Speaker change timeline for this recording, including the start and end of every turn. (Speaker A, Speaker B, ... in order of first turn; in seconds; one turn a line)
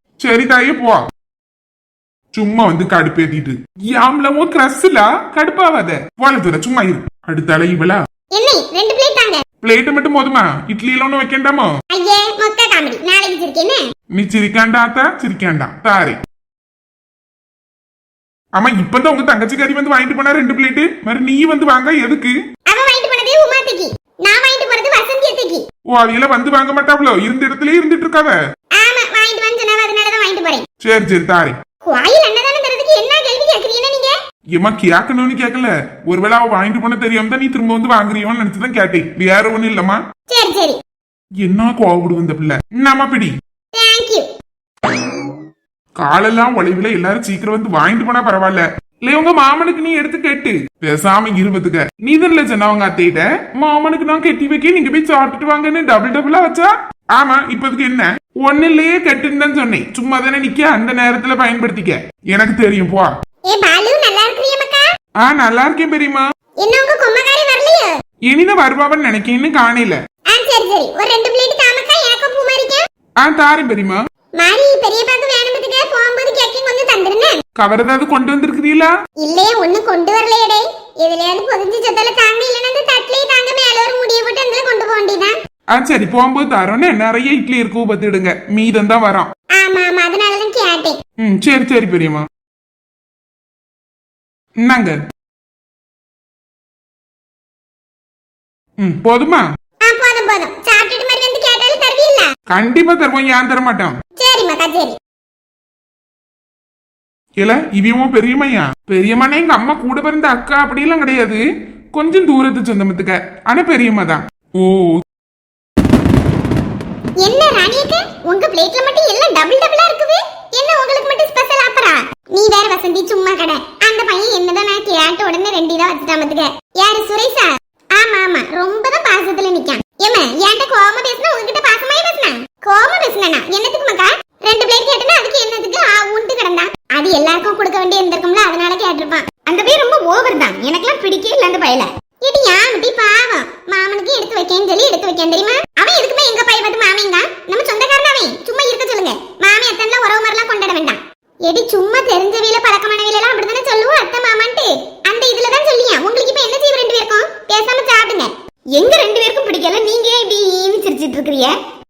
Speaker A: 0.2-1.0
Speaker A: 2.3-8.0
Speaker B: 8.3-9.4
Speaker A: 9.6-11.7
Speaker B: 11.9-13.8
Speaker A: 14.1-16.2
Speaker A: 18.6-22.3
Speaker B: 22.7-25.6
Speaker A: 25.9-28.4
Speaker B: 28.8-30.6
Speaker A: 30.8-31.6
Speaker B: 31.9-34.1
Speaker A: 34.5-40.0
Speaker B: 40.3-40.8
Speaker A: 41.4-43.3
Speaker B: 43.7-44.3
Speaker A: 46.0-63.1
Speaker B: 63.5-64.9
Speaker A: 65.2-66.2
Speaker B: 66.6-67.9
Speaker A: 68.3-70.0
Speaker B: 70.3-72.8
Speaker A: 73.2-74.0
Speaker B: 74.4-77.4
Speaker A: 77.6-78.9
Speaker B: 79.2-85.3
Speaker A: 85.7-89.3
Speaker B: 89.5-91.0
Speaker A: 91.2-92.2
Speaker A: 94.6-95.0
Speaker A: 98.8-99.4
Speaker B: 99.8-102.3
Speaker A: 102.5-104.0
Speaker B: 104.2-105.0
Speaker A: 107.4-111.4
Speaker A: 111.9-114.9
Speaker B: 117.2-139.3
Speaker C: 139.4-141.9
Speaker B: 142.2-158.3
Speaker C: 158.7-161.6